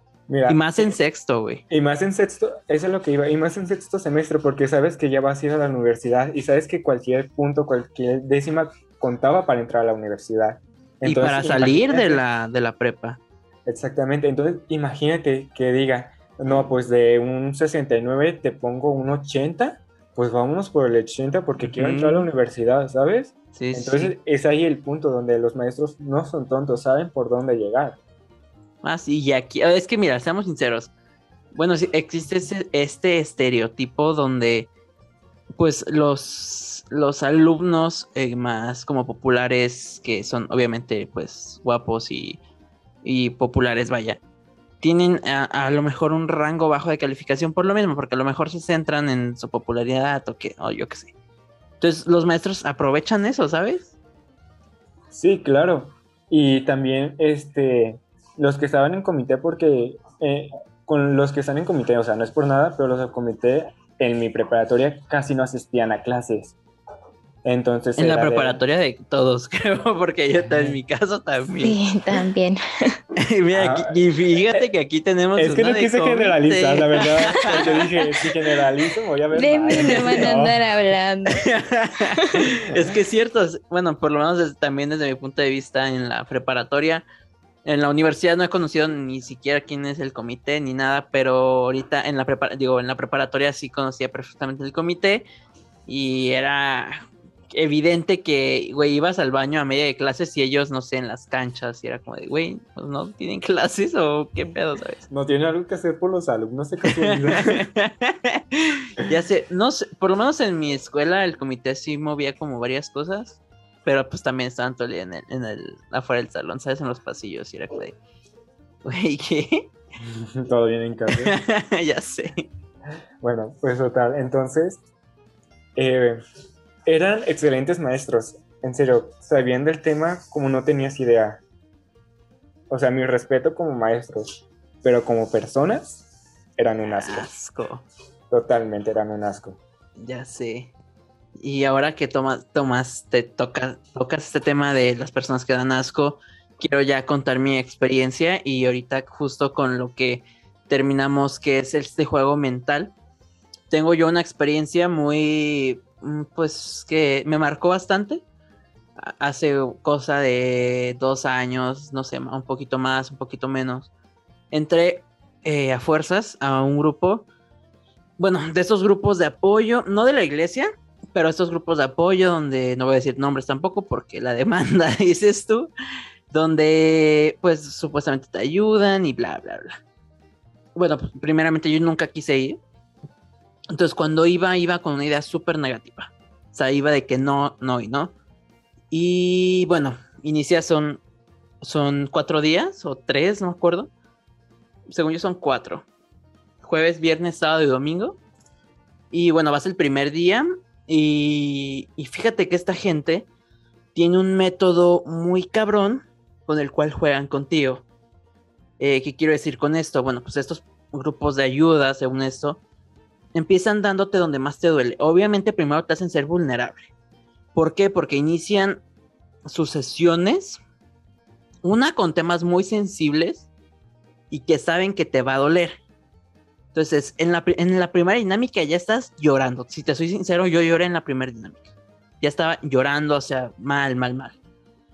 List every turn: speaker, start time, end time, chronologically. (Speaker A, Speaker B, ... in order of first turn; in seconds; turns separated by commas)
Speaker A: 0.3-0.9, Speaker B: 0.5-1.6, Speaker A: 1.7-12.2, Speaker B: 11.0-13.2, Speaker A: 13.7-28.0, Speaker B: 21.6-22.3, Speaker B: 23.5-24.1, Speaker B: 28.8-30.9, Speaker B: 31.5-34.7, Speaker B: 35.5-42.4, Speaker B: 43.0-44.2, Speaker B: 44.8-51.1, Speaker B: 51.8-53.9, Speaker A: 55.1-66.5, Speaker A: 67.4-68.6, Speaker B: 68.0-71.8, Speaker C: 71.6-72.6, Speaker B: 73.2-77.8, Speaker A: 73.5-73.9, Speaker A: 75.3-80.6, Speaker C: 77.5-77.8, Speaker C: 79.3-81.5, Speaker B: 79.7-80.3, Speaker B: 81.3-87.0, Speaker B: 87.6-95.2, Speaker B: 95.9-105.0, Speaker A: 105.1-107.6, Speaker B: 106.8-118.0, Speaker B: 118.8-119.7, Speaker A: 120.0-121.3, Speaker B: 121.1-122.5, Speaker A: 123.2-124.8, Speaker A: 125.8-126.2, Speaker A: 126.8-131.4, Speaker A: 132.7-136.0, Speaker A: 136.6-137.3, Speaker B: 136.9-137.8, Speaker A: 138.3-139.6, Speaker B: 140.0-140.7, Speaker B: 141.4-152.9, Speaker B: 153.7-158.2, Speaker B: 159.0-163.9, Speaker B: 164.5-167.3, Speaker B: 168.2-175.7, Speaker B: 176.3-179.8, Speaker B: 180.7-182.6, Speaker B: 183.7-188.1, Speaker B: 188.9-191.0, Speaker B: 191.6-193.9, Speaker B: 194.9-195.8, Speaker B: 196.6-198.2, Speaker B: 199.1-203.3, Speaker B: 203.9-207.8, Speaker B: 208.8-212.6, Speaker B: 213.3-216.9, Speaker B: 217.5-218.8, Speaker B: 219.4-220.6, Speaker B: 221.6-223.5, Speaker B: 224.3-225.8, Speaker B: 226.7-231.7, Speaker B: 232.2-234.3